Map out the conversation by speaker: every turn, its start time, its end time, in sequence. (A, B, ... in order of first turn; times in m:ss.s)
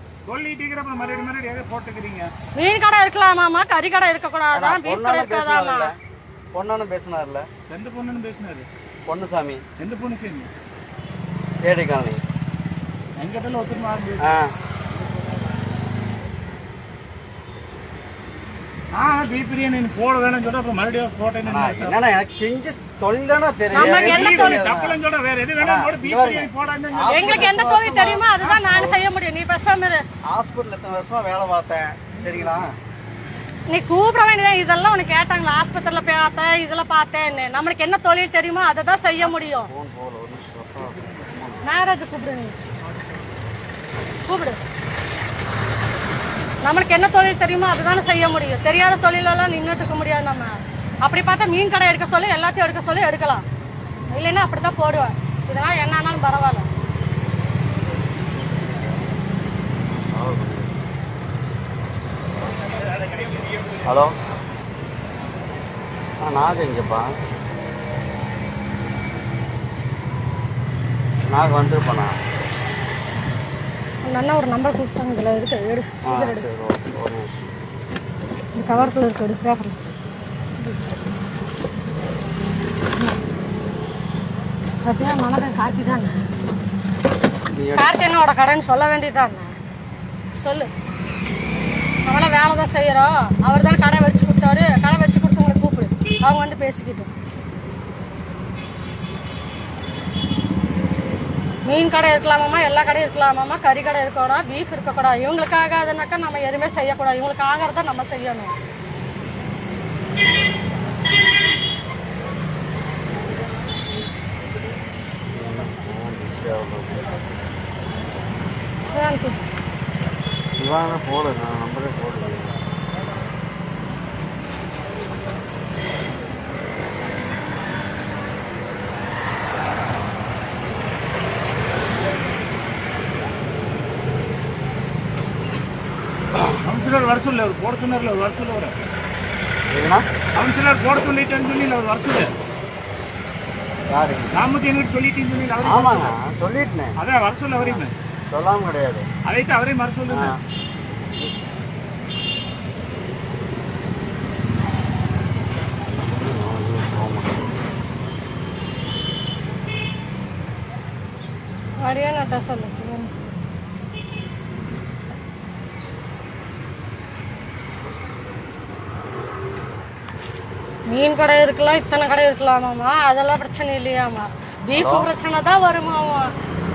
0:00.3-0:02.3 A
0:02.6-0:05.9 B
0:04.5-0:06.0 C
0:06.5-0:07.5 C
0:07.7-0:08.7 A
0:09.1-0:09.6 C
0:09.8-0:10.5 A
0:11.6-0:12.2 C
0:13.2-0:14.3 A
0:14.2-0:14.5 C
0:18.9-0:22.0 A
0:21.4-0:25.0 C
0:23.7-0:24.6 B
0:23.7-0:27.5 A
0:25.6-0:29.0 C
0:27.1-0:30.0 B
0:30.3-0:32.7 C
0:33.7-0:39.7 B
0:39.2-0:41.7 C
0:41.6-0:42.6 B
0:44.3-0:44.6 B
0:46.6-0:53.4 B
0:54.1-0:56.7 B
1:00.1-1:00.8 C
1:03.8-1:04.2 C
1:06.2-1:07.1 C
1:11.3-1:12.2 C
1:14.0-1:16.4 B
1:16.0-1:17.3 C
1:18.6-1:19.8 B
1:24.8-1:26.2 B
1:27.5-1:27.9 C
1:27.8-1:29.5 B
1:30.4-1:30.7 B
1:32.0-1:37.1 B
1:41.7-1:48.6 B
1:55.4-1:57.2 C
1:58.8-1:59.4 B
2:00.5-2:02.6 C
2:16.6-2:18.8 A
2:19.7-2:20.1 C
2:20.4-2:22.3 A
2:23.9-2:24.3 C
2:24.3-2:26.2 A
2:25.6-2:27.0 C
2:27.0-2:27.9 A
2:27.6-2:29.1 C
2:29.2-2:30.4 A
2:30.1-2:30.4 C
2:36.2-2:37.5 C
2:41.8-2:43.4 B
2:50.9-2:56.3 B
2:54.7-2:55.1 C